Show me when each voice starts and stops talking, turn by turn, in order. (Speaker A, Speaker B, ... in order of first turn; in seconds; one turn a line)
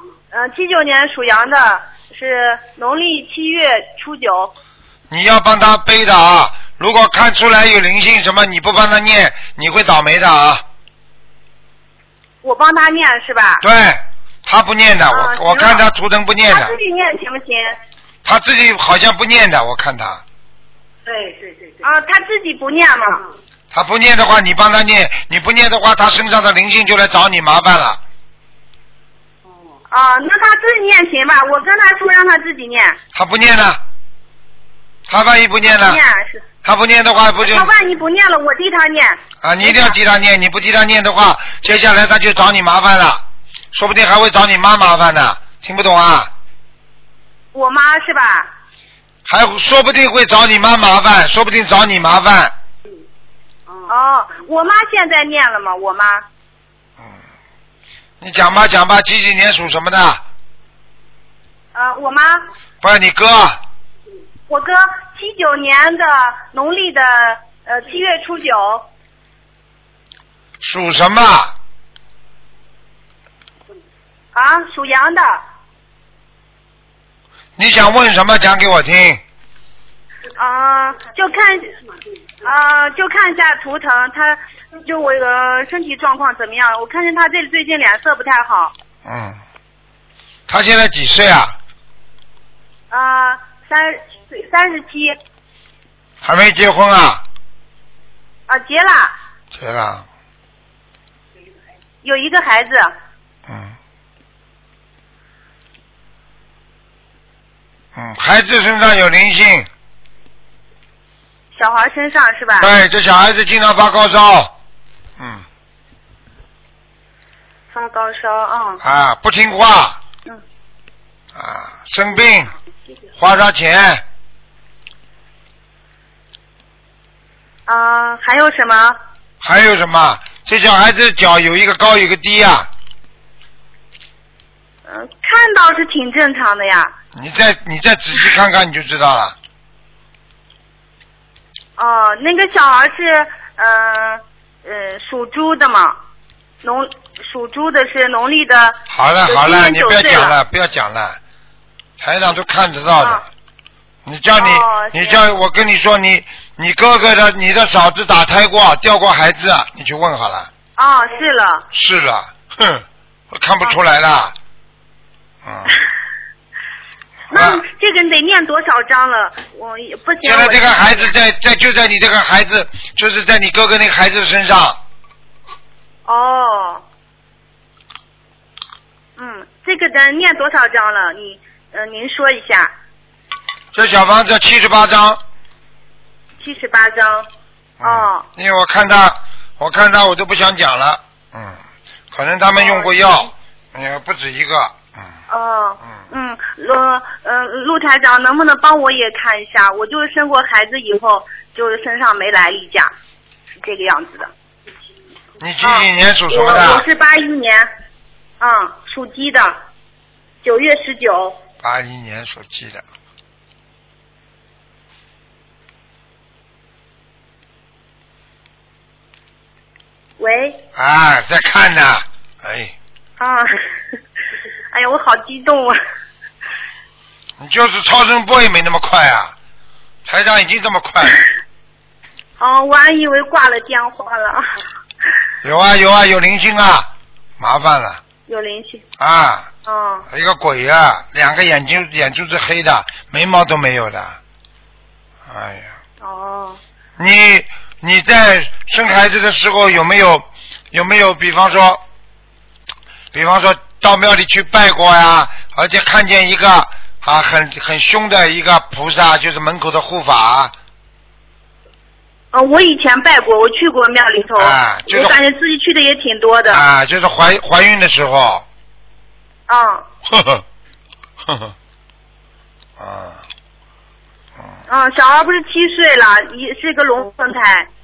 Speaker A: 0.3-4.5
Speaker B: 5.1-10.6
Speaker A: 12.4-13.6
Speaker B: 13.6-16.8
Speaker A: 15.1-15.9
Speaker A: 16.5-17.8
Speaker B: 18.2-20.2
Speaker A: 21.1-23.2
Speaker B: 23.7-28.0
Speaker A: 29.9-33.0
Speaker B: 33.1-33.8
Speaker B: 35.1-36.0
Speaker A: 35.6-36.5
Speaker B: 36.6-37.7
Speaker A: 37.4-40.0
Speaker B: 39.4-43.2
Speaker B: 43.7-46.3
Speaker A: 47.5-48.5
Speaker B: 49.3-52.5
Speaker A: 53.9-56.2
Speaker B: 58.2-60.2
Speaker A: 61.7-62.5
Speaker B: 62.8-63.6
Speaker A: 64.5-68.9
Speaker B: 70.6-71.5
Speaker A: 74.3-75.4
Speaker B: 77.6-79.2
Speaker A: 80.4-81.7
Speaker A: 82.4-88.7
Speaker B: 89.0-89.4
Speaker B: 90.5-91.5
Speaker A: 92.9-95.2
Speaker B: 96.2-97.2
Speaker A: 98.5-99.2
Speaker B: 99.5-100.0
Speaker A: 102.0-102.9
Speaker B: 103.5-103.8
Speaker B: 108.0-109.7
Speaker A: 111.5-112.7
Speaker B: 112.6-114.5
Speaker B: 115.2-115.4
Speaker A: 117.7-118.8
Speaker B: 118.8-120.0
Speaker B: 121.3-122.5
Speaker B: 123.2-124.0
Speaker A: 127.7-129.0
Speaker B: 129.4-132.7
Speaker A: 134.9-136.9
Speaker B: 137.2-139.3
Speaker A: 141.8-146.0
Speaker A: 146.6-150.4
Speaker B: 148.9-151.2
Speaker B: 152.0-153.2
Speaker A: 153.0-153.2
Speaker B: 154.1-160.5
Speaker A: 154.4-155.3
Speaker A: 160.8-161.7
Speaker B: 161.7-164.3
Speaker B: 165.4-165.7
Speaker B: 167.3-167.6
Speaker A: 167.3-171.1
Speaker B: 170.2-174.8
Speaker A: 176.1-176.8
Speaker A: 179.2-182.7
Speaker B: 183.7-185.2
Speaker A: 186.4-187.3
Speaker B: 187.8-191.6
Speaker A: 187.8-188.3
Speaker B: 192.1-195.1
Speaker A: 192.5-193.3
Speaker A: 195.3-202.9
Speaker A: 203.6-204.3
Speaker B: 205.4-206.9
Speaker A: 205.6-207.7
Speaker A: 208.4-209.6
Speaker A: 210.4-211.4
Speaker B: 211.6-212.8
Speaker A: 220.2-220.6
Speaker B: 220.8-222.7
Speaker A: 223.2-223.6
Speaker A: 224.7-225.8
Speaker B: 227.4-229.3
Speaker B: 230.1-231.2
Speaker A: 232.4-234.4
Speaker B: 235.4-238.0
Speaker A: 238.3-238.8
Speaker B: 239.0-239.5
Speaker A: 239.7-240.1
Speaker B: 240.1-244.2
Speaker B: 245.3-245.7
Speaker A: 246.0-246.6
Speaker B: 247.0-251.8
Speaker B: 253.1-260.5
Speaker A: 262.3-266.6
Speaker B: 264.4-265.2
Speaker B: 266.5-268.4
Speaker A: 269.5-269.9
Speaker B: 270.1-270.4
Speaker B: 271.3-271.5
Speaker B: 272.8-273.2
Speaker A: 274.7-277.7